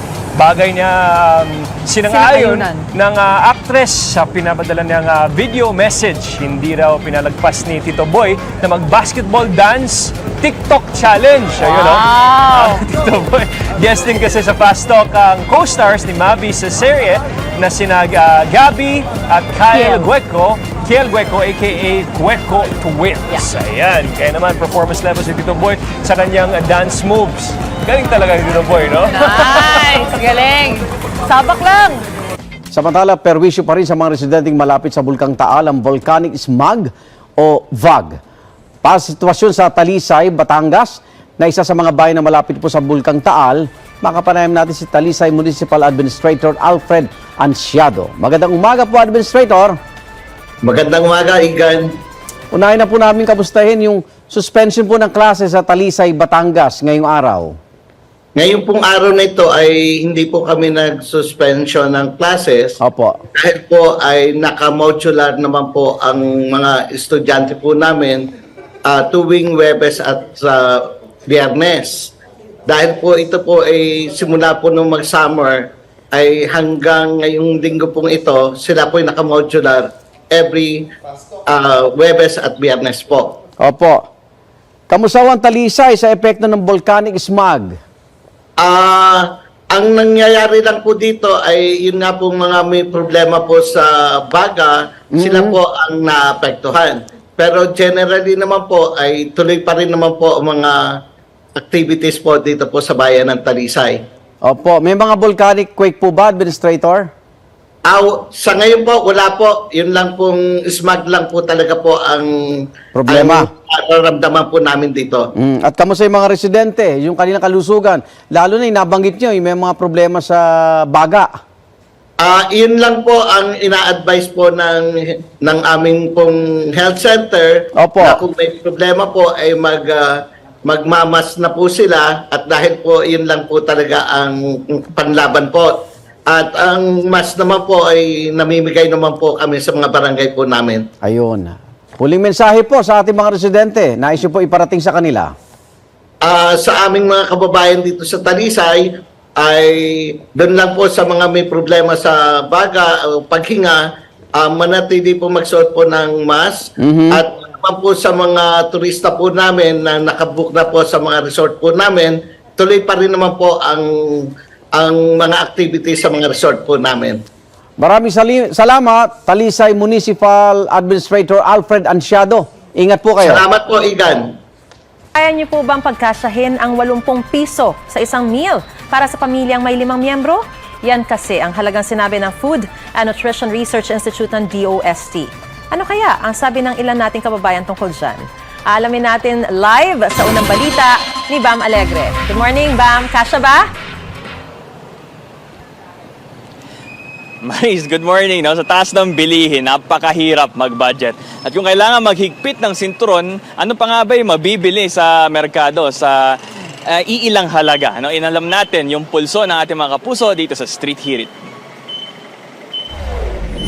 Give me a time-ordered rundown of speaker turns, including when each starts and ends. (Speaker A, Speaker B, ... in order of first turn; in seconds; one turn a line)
Speaker A: 0.3-29.9
Speaker B: 2.2-2.7
Speaker B: 11.9-12.8
Speaker B: 29.3-32.0
Speaker C: 32.7-38.2
Speaker C: 38.8-49.8
Speaker D: 50.7-51.8
Speaker C: 52.5-57.6
Speaker D: 58.4-62.7
Speaker C: 62.8-63.2
Speaker D: 63.5-68.2
Speaker D: 68.9-70.5
Speaker D: 71.3-72.0
Speaker D: 72.7-75.5
Speaker D: 76.2-79.8
Speaker D: 80.4-80.7
Speaker D: 81.6-83.3
Speaker C: 83.6-84.1
Speaker C: 84.9-87.8
Speaker D: 88.7-89.1
Speaker D: 89.7-100.7
Speaker C: 95.1-95.6
Speaker D: 101.7-104.0
Speaker C: 104.4-107.1
Speaker D: 107.9-112.2
Speaker C: 112.9-113.5
Speaker D: 113.1-115.2
Speaker C: 115.4-121.3
Speaker D: 122.3-124.7
Speaker D: 125.5-126.3
Speaker D: 126.8-127.5
Speaker C: 127.8-128.2
Speaker D: 128.0-129.8
Speaker D: 130.7-134.3
Speaker D: 135.0-135.7
Speaker D: 136.3-140.8
Speaker C: 141.0-145.3
Speaker D: 146.3-148.8
Speaker D: 150.3-153.8
Speaker D: 154.4-156.6
Speaker C: 156.8-157.2
Speaker D: 157.1-163.8
Speaker D: 164.8-167.2
Speaker C: 167.8-173.4
Speaker D: 173.3-174.2
Speaker E: 175.1-193.7
Speaker F: 197.4-206.2
Speaker F: 206.9-211.3